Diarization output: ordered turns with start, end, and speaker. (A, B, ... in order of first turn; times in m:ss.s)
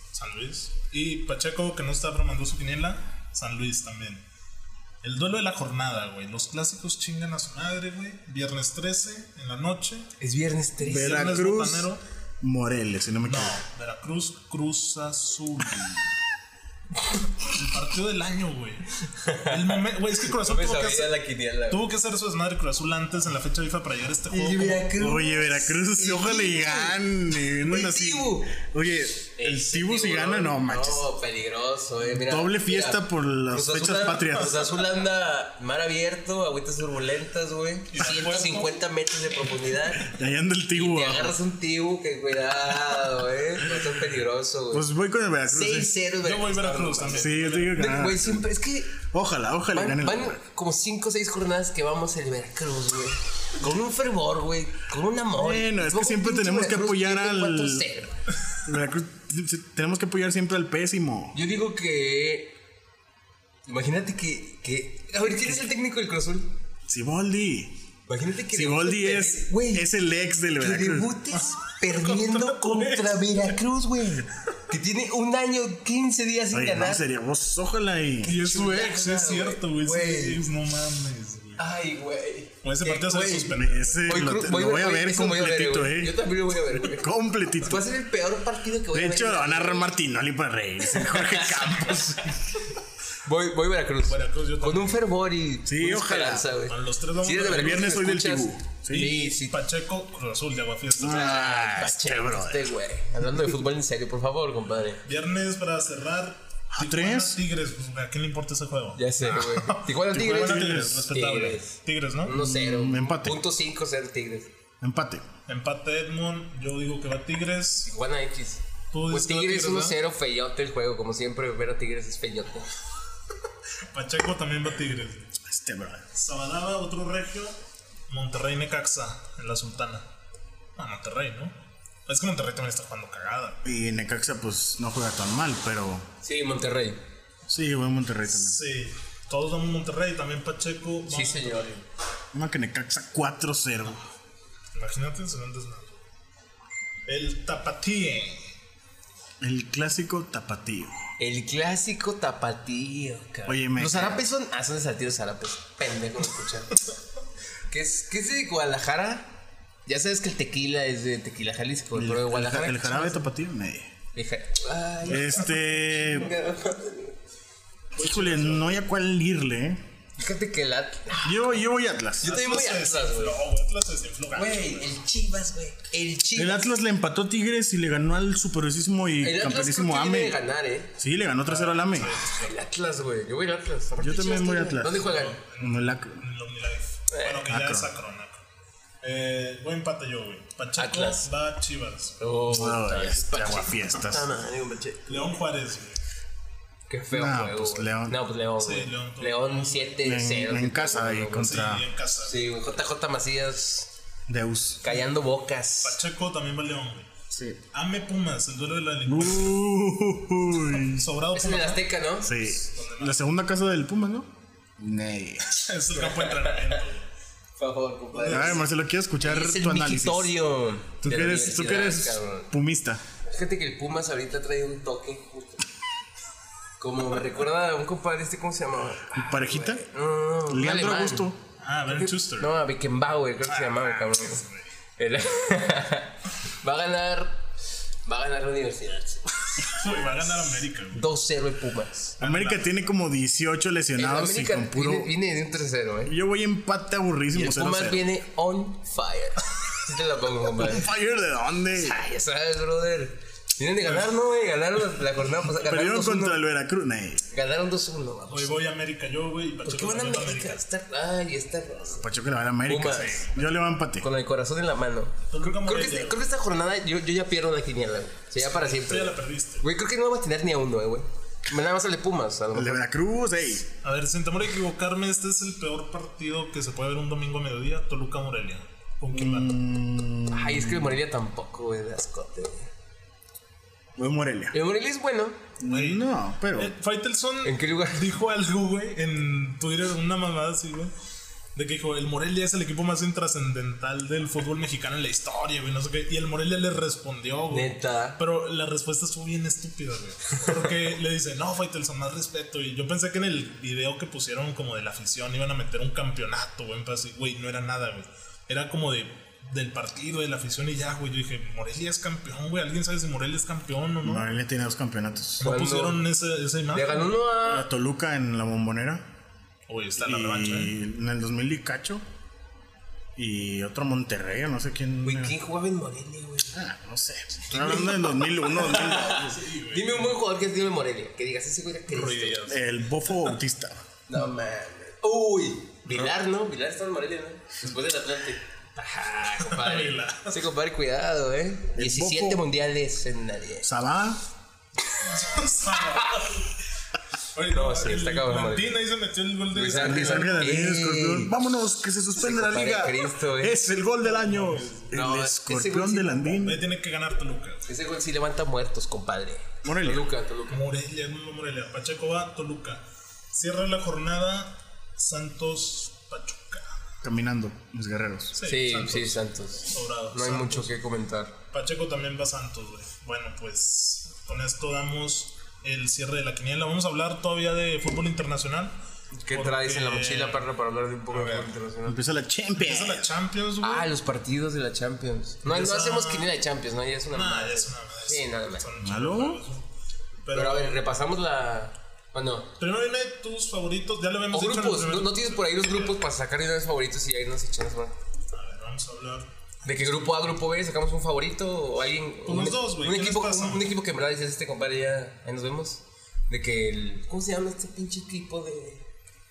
0:00.1-0:04.2 A
0:05.0-0:10.1 A
0:10.2-0:11.5 B
0:10.8-0:11.9 C
0:10.9-0:12.0 A
0:12.4-0:13.6 C
0:13.3-0:16.1 A
0:17.4-0:21.2 A
0:19.2-0:21.8 B
0:21.7-0:24.9 A
0:24.3-0:28.6 B
0:25.0-0:31.1 C
0:29.4-0:40.2 B
0:32.1-0:34.6 C
0:37.9-0:38.8 A
0:39.9-0:41.4 C
0:40.7-0:44.9 B
0:44.7-0:46.0 C
0:45.5-0:49.0 B
0:46.2-0:47.9 A
0:47.1-0:48.4 C
0:49.0-0:50.4 C
0:49.7-0:58.2 B
0:55.4-0:57.9 C
0:58.6-1:01.4 C
1:01.3-1:02.5 B
1:03.7-1:06.5 B
1:06.9-1:07.7 C
1:08.1-1:09.9 B
1:08.5-1:11.2 C
1:10.6-1:17.0 B
1:11.3-1:13.5 A
1:16.5-1:18.4 C
1:18.2-1:21.7 A
1:18.2-1:20.4 B
1:21.6-1:29.9 B
1:22.6-1:24.1 A
1:23.6-1:27.9 C
1:28.9-1:32.3 C
1:30.8-1:39.6 B
1:34.1-1:35.0 A
1:35.6-1:36.5 C
1:36.6-1:38.0 A
1:37.4-1:39.1 C
1:38.9-1:41.7 A
1:41.0-1:42.7 C
1:41.0-1:45.0 B
1:45.0-1:52.4 A
1:46.7-1:47.4 C
1:49.0-1:54.5 B
1:50.1-1:51.1 C
1:52.3-1:53.4 C
1:54.8-1:55.3 C
1:55.5-1:57.9 A
1:57.8-2:02.7 B
1:58.9-2:00.0 A
2:03.9-2:05.4 A
2:05.4-2:06.1 C
2:06.1-2:07.6 A
2:08.1-2:10.0 A
2:10.8-2:11.5 A
2:12.1-2:13.6 A
2:13.6-2:16.1 C
2:16.2-2:17.0 B
2:17.5-2:18.6 C
2:18.3-2:21.8 A
2:21.1-2:21.8 B
2:22.3-2:24.0 C
2:24.7-2:26.0 A
2:27.1-2:28.5 A
2:29.4-2:31.0 C
2:31.2-2:36.8 B
2:33.5-2:34.2 C
2:37.7-2:39.3 B
2:39.9-2:43.3 B
2:41.9-2:43.9 C
2:44.1-2:47.2 B
2:45.0-2:46.3 C
2:45.2-2:45.6 A
2:48.0-2:48.8 A
2:48.0-2:49.8 C
2:50.2-2:51.6 B
2:51.2-2:52.3 C
2:52.2-2:53.4 B
2:52.2-2:55.0 A
2:54.3-2:56.6 B
2:56.4-3:00.4 C
2:59.2-3:00.9 B
3:01.0-3:02.1 C
3:01.4-3:02.6 A
3:02.3-3:05.4 B
3:04.0-3:05.0 C
3:04.9-3:08.4 A
3:05.6-3:06.2 C
3:07.1-3:07.4 B
3:07.5-3:07.9 C
3:09.0-3:12.2 A
3:10.8-3:11.3 B
3:12.2-3:15.3 B
3:12.5-3:14.3 C
3:15.1-3:16.0 A
3:16.9-3:21.6 B
3:17.1-3:18.2 C
3:18.6-3:20.0 A
3:20.0-3:21.8 C
3:21.3-3:22.4 A
3:22.2-3:23.9 B
3:24.3-3:25.0 C
3:24.8-3:26.0 B
3:25.8-3:27.1 A
3:27.3-3:27.6 C
3:27.7-3:29.6 A
3:29.1-3:31.1 C
3:30.7-3:31.9 A
3:31.3-3:32.4 B
3:32.2-3:35.5 C
3:32.5-3:33.2 A
3:35.6-3:37.1 A
3:35.9-3:36.8 B
3:37.6-3:38.6 B
3:38.1-3:38.6 A
3:38.3-3:40.4 C
3:39.2-3:42.5 B
3:41.0-3:43.0 C
3:43.3-3:45.6 B
3:46.8-3:51.3 B
3:49.1-3:49.8 C
3:50.5-3:51.4 C
3:51.6-3:52.5 A
3:51.9-3:54.4 B
3:53.5-3:54.7 A
3:55.0-3:57.4 B
3:58.0-3:59.8 B
3:59.6-4:01.1 A
4:00.9-4:02.2 B
4:02.2-4:02.7 A
4:02.2-4:05.1 C
4:04.0-4:06.1 B
4:06.1-4:08.1 C
4:07.3-4:10.9 B
4:10.6-4:12.0 C
4:11.8-4:16.4 B
4:15.6-4:17.2 C
4:17.3-4:18.6 B
4:18.3-4:20.6 A
4:19.6-4:22.1 B
4:21.9-4:24.1 C
4:22.7-4:23.2 B
4:22.8-4:23.6 A
4:24.0-4:32.8 B
4:25.3-4:26.2 A
4:28.4-4:29.7 A
4:32.5-4:33.7 C
4:33.8-4:39.6 A
4:39.1-4:41.0 C
4:40.3-4:42.7 B
4:44.0-4:44.6 C
4:44.5-4:45.4 B
4:45.6-4:46.7 C
4:45.7-4:50.9 A
4:47.4-4:48.0 B
4:51.6-5:14.3 A
4:57.5-4:58.2 B
5:14.0-5:15.5 C
5:15.4-5:17.2 A
5:15.4-5:16.0 B
5:16.7-5:17.7 B
5:17.4-5:19.0 C
5:19.7-5:20.8 A
5:20.0-5:22.0 C
5:23.2-5:25.3 C
5:25.0-5:26.6 B
5:26.5-5:29.4 C
5:27.5-5:30.2 A
5:28.4-5:32.4 B
5:31.9-5:33.4 A
5:32.5-5:33.8 C
5:34.1-5:43.7 B
5:39.4-5:40.4 A
5:41.8-5:42.4 C
5:43.6-5:44.2 C
5:44.8-5:46.3 B
5:45.0-5:46.5 A
5:47.4-5:50.6 A
5:47.5-5:48.7 B
5:49.5-5:51.3 B
5:49.7-5:56.6 C
5:52.2-5:53.6 B
5:54.0-5:54.9 A
5:54.9-5:56.4 B
5:56.4-5:57.6 A
5:57.7-6:00.6 B
5:59.6-6:00.1 C
6:00.5-6:06.8 A
6:07.0-6:08.4 C
6:08.3-6:10.7 A
6:08.4-6:11.4 B
6:11.5-6:18.8 A
6:19.2-6:22.0 B
6:19.3-6:20.5 A
6:21.1-6:21.5 A
6:21.8-6:23.1 C
6:22.6-6:23.9 A
6:23.6-6:28.7 B
6:25.5-6:26.3 A
6:27.1-6:29.7 A
6:28.8-6:29.4 C
6:30.2-6:31.0 A
6:30.3-6:32.5 B
6:32.6-6:36.0 A
6:34.3-6:38.0 B
6:38.3-6:40.4 A
6:39.6-6:48.8 B
6:42.3-6:43.7 A